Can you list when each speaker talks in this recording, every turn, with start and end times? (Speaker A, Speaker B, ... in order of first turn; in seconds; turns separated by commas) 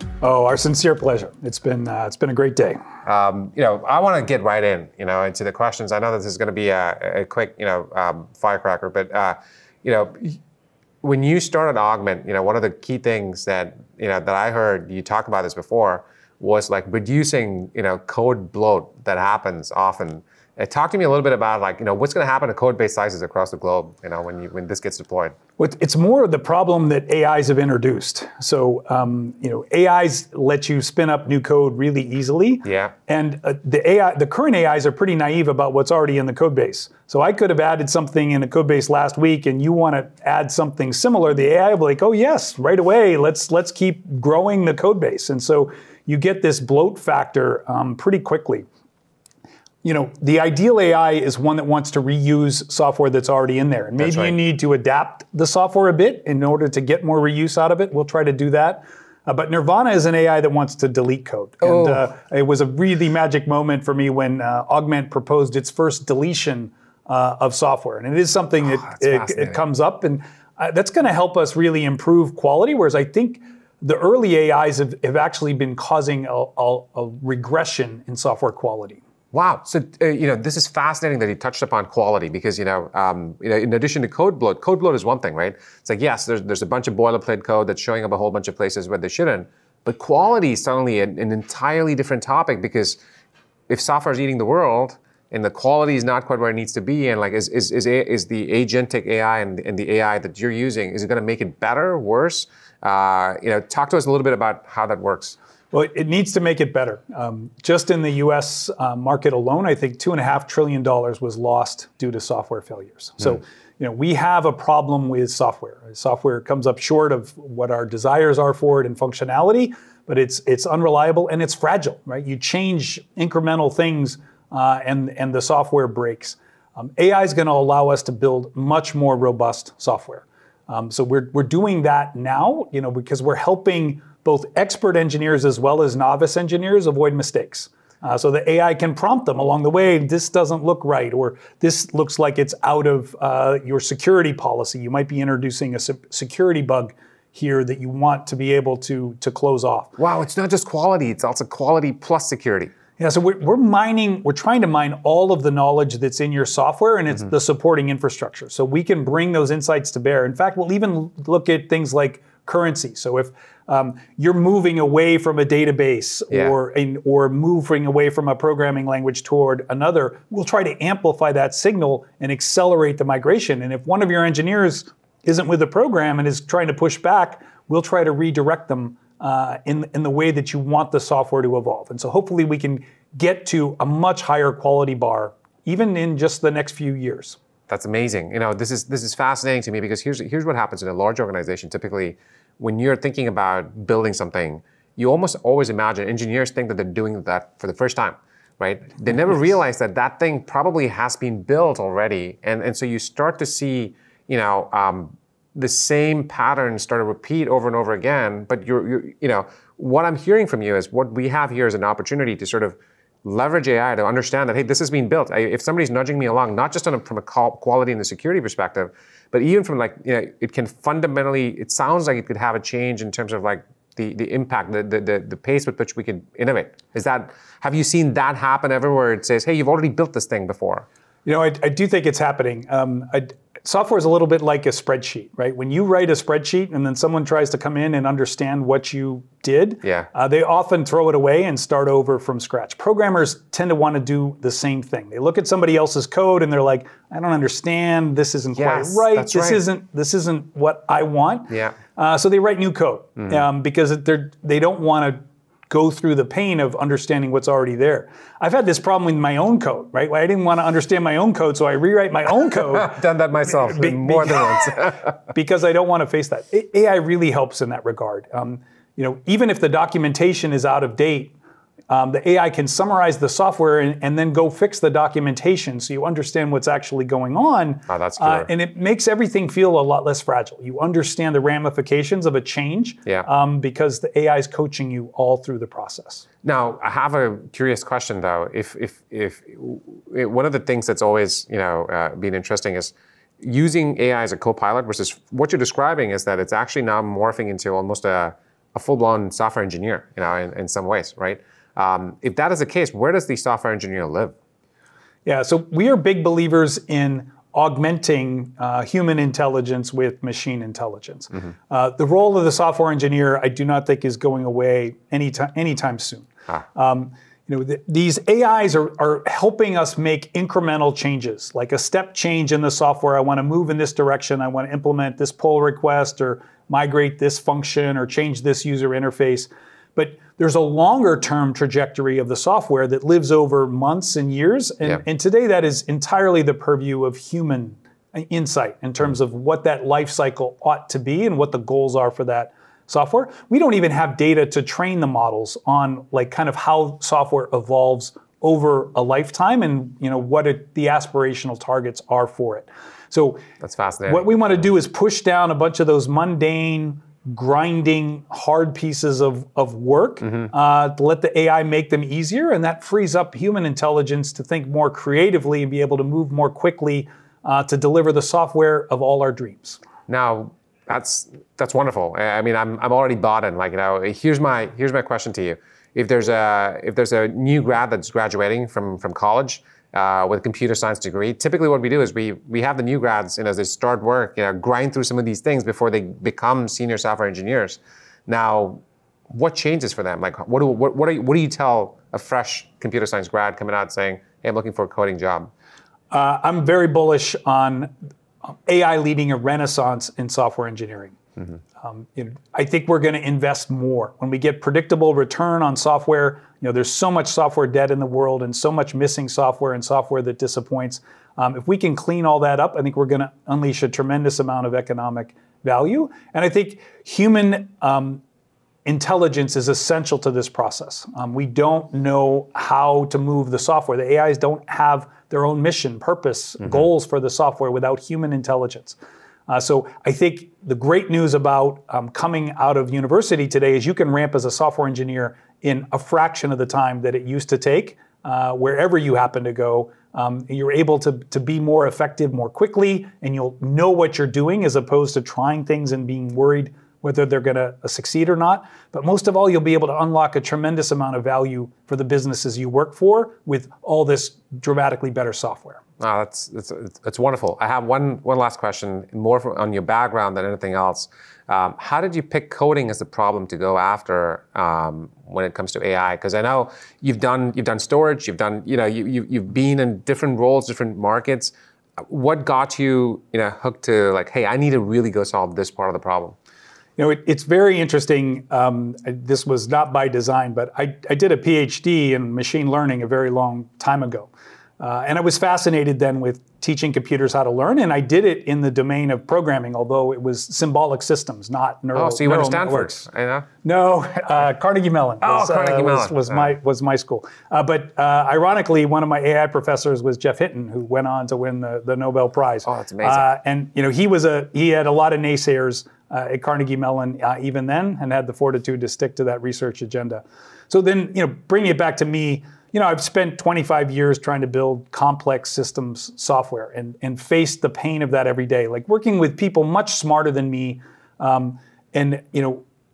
Speaker A: 0.2-2.8, Speaker B: 3.0-10.4, Speaker B: 11.0-25.3, Speaker A: 25.6-48.7, Speaker B: 32.6-32.9, Speaker A: 49.8-79.0, Speaker B: 54.0-54.4, Speaker B: 61.6-62.0, Speaker B: 68.6-69.6, Speaker B: 79.3-93.0, Speaker B: 93.7-105.3, Speaker A: 105.7-149.9, Speaker B: 150.0-152.7, Speaker A: 153.0-187.4, Speaker B: 187.7-230.8, Speaker A: 231.2-271.3, Speaker B: 248.6-249.6, Speaker B: 251.5-251.7, Speaker B: 262.7-265.1, Speaker A: 271.9-286.2, Speaker B: 277.9-278.5, Speaker B: 286.4-304.3, Speaker A: 305.2-353.4, Speaker B: 353.6-354.3, Speaker A: 354.1-369.8, Speaker B: 370.1-395.5, Speaker A: 396.1-397.9, Speaker A: 398.4-401.2, Speaker A: 401.8-418.2, Speaker A: 418.8-429.0, Speaker A: 429.5-455.8, Speaker B: 456.0-471.5, Speaker B: 472.1-476.4, Speaker A: 477.0-493.0, Speaker B: 491.9-493.5, Speaker A: 493.6-522.6, Speaker B: 495.2-496.5, Speaker B: 502.6-503.2